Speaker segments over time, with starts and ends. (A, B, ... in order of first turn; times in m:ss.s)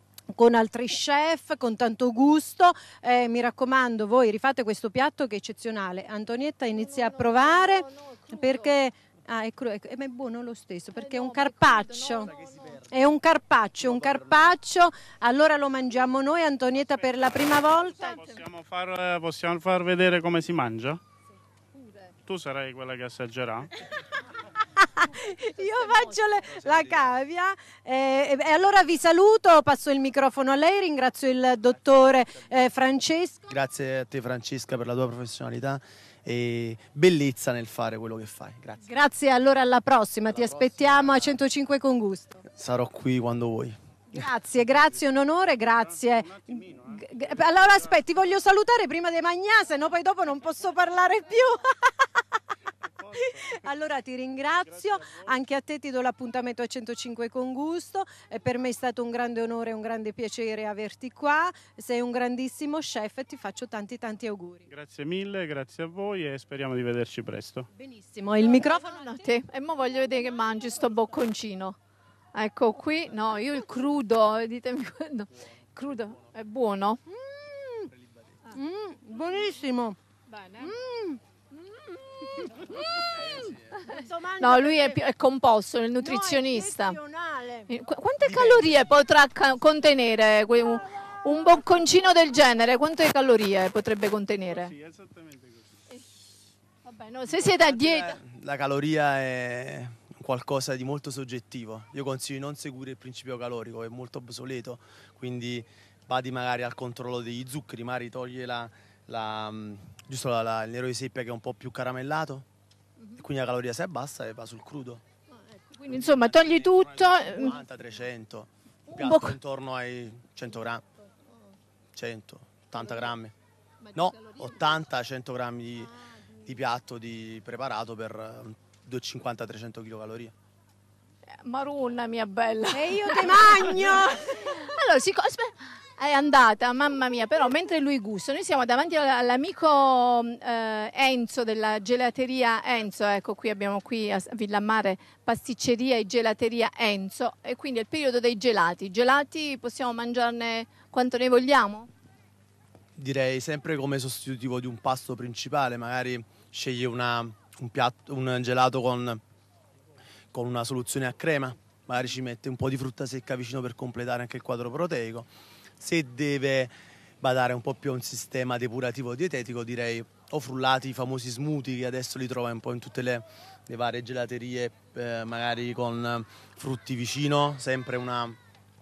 0:00.3-0:12.3 A
0:06.7-0:08.7 B
0:10.9-0:12.8 B
0:12.9-0:18.2 A
0:17.9-0:21.0 C
0:18.0-0:18.4 B
0:21.8-0:22.0 B
0:22.2-0:23.7 C
0:24.8-0:33.5 A
0:25.8-0:26.1 B
0:26.6-0:27.1 D
0:33.5-0:38.8 D
0:38.8-0:42.4 A
0:42.5-0:43.8 D
0:44.1-0:51.9 A
0:46.2-0:47.8 C
0:53.0-0:53.6 C
0:53.2-1:04.6 A
0:54.7-0:55.2 C
1:04.7-1:07.7 C
1:07.8-1:09.2 A
1:08.4-1:11.8 B
1:12.3-1:17.0 B
1:17.1-1:17.9 A
1:18.5-1:20.0 A
1:20.3-1:20.7 B
1:20.6-1:21.2 A
1:23.2-1:23.6 D
1:23.8-1:25.0 A
1:24.4-1:27.0 B
1:26.0-1:27.7 A
1:27.7-1:34.7 B
1:28.3-1:28.8 D
1:34.5-1:35.6 C
1:36.8-1:38.2 B
1:37.5-1:52.4 D
1:53.2-1:55.0 D
1:55.7-1:57.6 B
1:55.9-2:00.8 D
1:58.9-1:59.4 B
2:01.9-2:03.3 D
2:02.8-2:03.1 B
2:03.8-2:04.8 B
2:03.9-2:05.9 D
2:06.4-2:10.3 D
2:11.4-2:31.9 B
2:12.7-2:14.3 A
2:33.0-2:39.2 D
2:40.3-2:58.4 D